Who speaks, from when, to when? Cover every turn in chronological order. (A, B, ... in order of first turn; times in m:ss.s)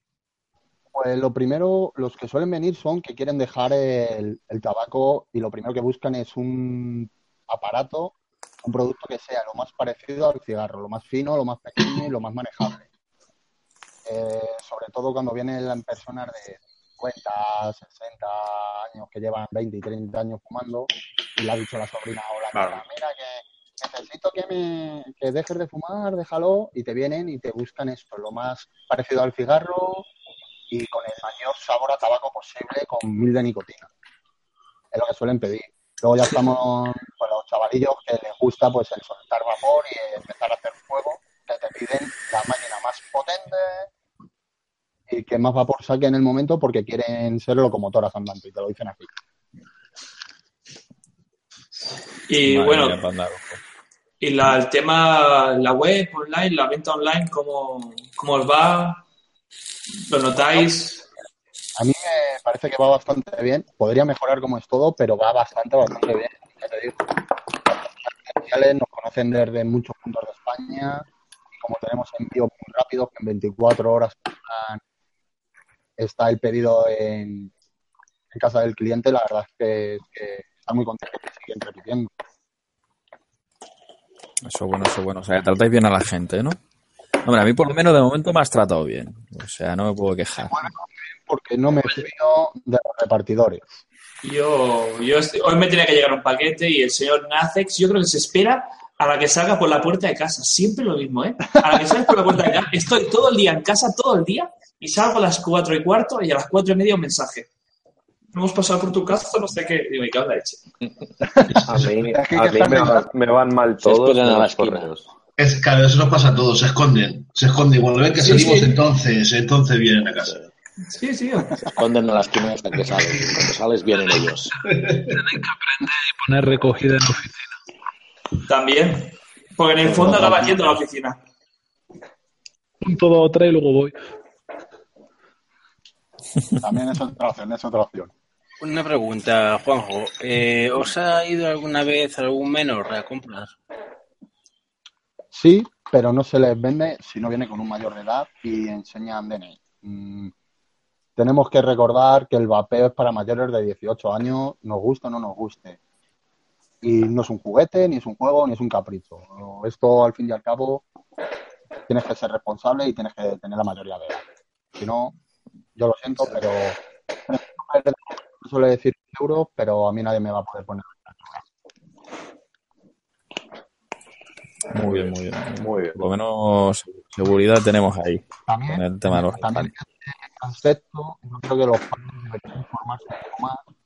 0:00.9-0:12.9 A
0:14.0-0:30.1 A
0:22.5-0:22.8 B
0:30.7-0:33.9 A
0:34.9-0:43.9 A
0:45.1-0:49.1 A
0:52.3-0:53.0 C
0:52.4-0:53.6 D
0:54.2-0:59.0 C
1:00.1-1:01.0 C
1:01.8-1:07.0 A
1:07.6-1:14.8 A
1:16.0-1:17.5 A
1:18.3-1:22.1 A
1:24.4-1:26.6 D
1:27.2-1:30.7 D
1:30.4-1:33.8 A
1:34.2-1:47.5 C
1:48.3-1:50.6 C
1:51.6-1:55.1 E
1:51.6-1:53.1 A
1:53.8-1:55.0 B
1:55.4-2:00.4 F
1:58.2-1:58.7 C
2:00.2-2:00.5 B
2:00.9-2:01.7 C
2:01.7-2:04.5 B
2:04.0-2:04.3 G
2:04.7-2:05.2 F
2:05.1-2:07.6 G
2:08.5-2:11.2 C
2:12.8-2:13.9 G
2:16.6-2:18.1 A
2:18.6-2:23.6 H
2:25.3-2:30.3 A
2:31.2-2:35.8 A
2:36.8-2:40.8 A
2:41.9-2:44.2 A
2:44.8-2:45.1 A
2:45.8-2:51.4 A
2:54.7-2:59.7 D
2:54.8-2:56.0 E
2:58.5-3:03.6 A